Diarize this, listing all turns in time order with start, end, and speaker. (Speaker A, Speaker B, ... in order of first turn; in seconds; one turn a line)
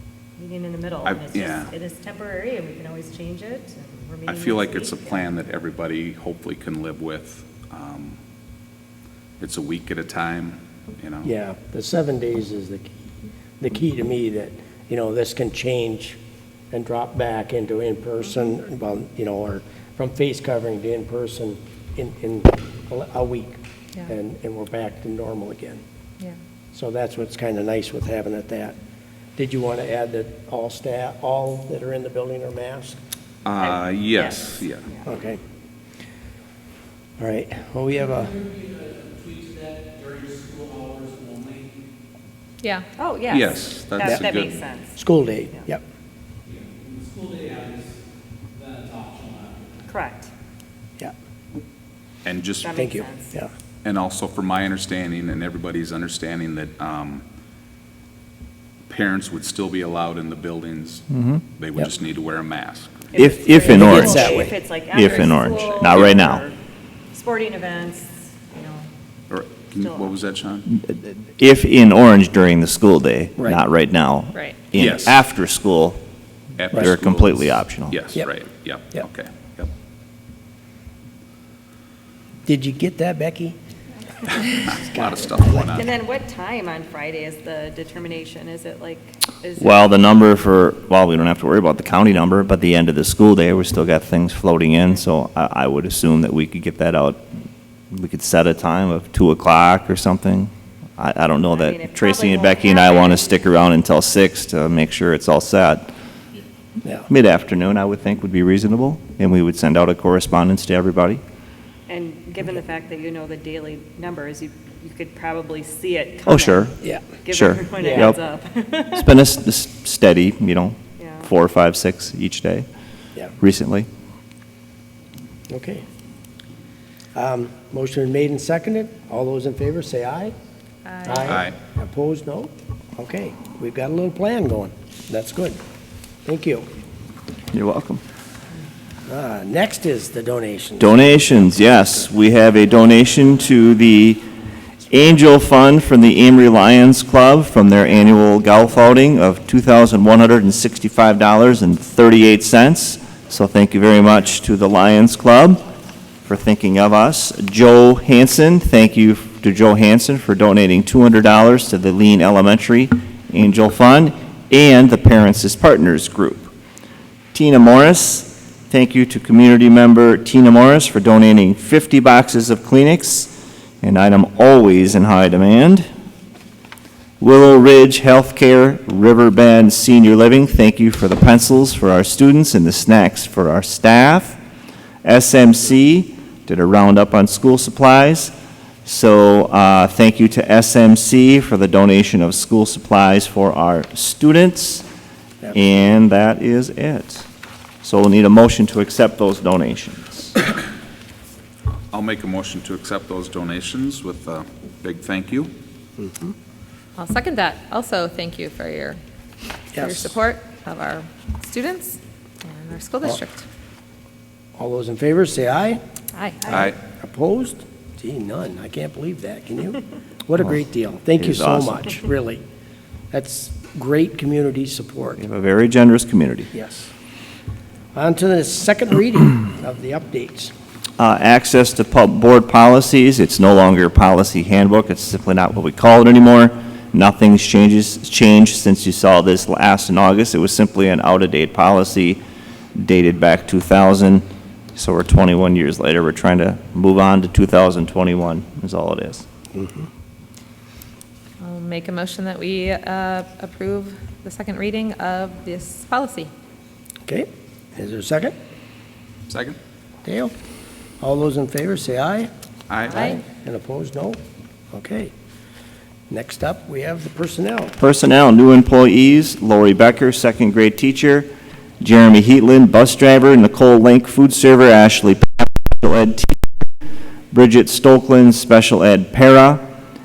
Speaker A: 0.4-5.3
Speaker B: 1.0-1.7
Speaker B: 4.3-8.2
Speaker B: 9.4-11.3
Speaker C: 11.2-12.9
Speaker C: 13.6-16.2
Speaker C: 16.7-25.8
Speaker C: 26.7-28.8
Speaker C: 29.4-33.0
Speaker B: 33.4-34.8
Speaker A: 33.6-35.0
Speaker C: 35.0-35.4
Speaker C: 37.2-38.4
Speaker D: 38.3-41.7
Speaker A: 43.0-45.0
Speaker B: 43.3-44.6
Speaker C: 45.0-45.8
Speaker D: 46.5-48.0
Speaker D: 48.5-49.7
Speaker A: 49.9-50.3
Speaker B: 52.2-52.7
Speaker A: 52.6-53.3
Speaker C: 52.7-53.5
Speaker B: 53.8-57.2
Speaker B: 58.9-63.3
Speaker E: 61.1-61.4
Speaker A: 63.1-66.5
Speaker E: 63.1-64.3
Speaker C: 63.6-64.5
Speaker E: 64.9-66.4
Speaker A: 67.1-68.9
Speaker B: 69.3-70.7
Speaker A: 69.8-70.2
Speaker E: 70.7-76.0
Speaker B: 74.7-75.2
Speaker B: 76.6-79.7
Speaker E: 76.7-78.0
Speaker C: 82.5-83.6
Speaker B: 84.7-85.9
Speaker C: 84.7-85.7
Speaker A: 85.7-89.9
Speaker E: 89.6-97.2
Speaker E: 97.9-105.9
Speaker A: 101.5-103.5
Speaker E: 107.1-111.2
Speaker A: 111.9-119.1
Speaker E: 116.3-116.7
Speaker E: 117.3-118.2
Speaker C: 117.8-118.1
Speaker E: 118.9-122.7
Speaker A: 121.0-121.3
Speaker E: 123.4-123.9
Speaker C: 125.5-125.8
Speaker C: 127.1-130.3
Speaker F: 130.9-131.4
Speaker C: 131.0-135.6
Speaker B: 131.2-131.5
Speaker C: 136.2-136.7
Speaker E: 137.5-138.0
Speaker C: 139.1-141.1
Speaker E: 140.8-144.2
Speaker E: 144.9-155.6
Speaker E: 156.2-166.5
Speaker E: 167.3-175.9
Speaker E: 177.2-184.4
Speaker E: 185.0-188.3
Speaker E: 188.8-194.8
Speaker E: 195.5-197.3
Speaker E: 197.8-200.3
Speaker B: 201.9-205.5
Speaker C: 206.0-206.3
Speaker F: 207.0-209.0
Speaker C: 209.7-210.2
Speaker F: 209.7-213.4
Speaker C: 214.6-215.8
Speaker F: 216.1-216.4
Speaker C: 216.4-222.4
Speaker E: 221.2-222.0
Speaker C: 223.1-225.2
Speaker E: 225.2-226.5
Speaker C: 226.5-226.9
Speaker C: 227.9-230.5
Speaker E: 231.0-242.2
Speaker E: 242.8-249.2
Speaker C: 249.5-249.9
Speaker F: 251.4-256.3
Speaker C: 257.1-258.3
Speaker B: 259.3-259.6
Speaker C: 260.0-260.3
Speaker C: 261.0-262.3
Speaker B: 262.7-263.1
Speaker F: 262.9-263.2
Speaker C: 262.9-264.2
Speaker C: 264.7-265.1
Speaker C: 266.1-267.7
Speaker E: 267.8-271.3
Speaker E: 271.8-276.5
Speaker E: 277.3-279.6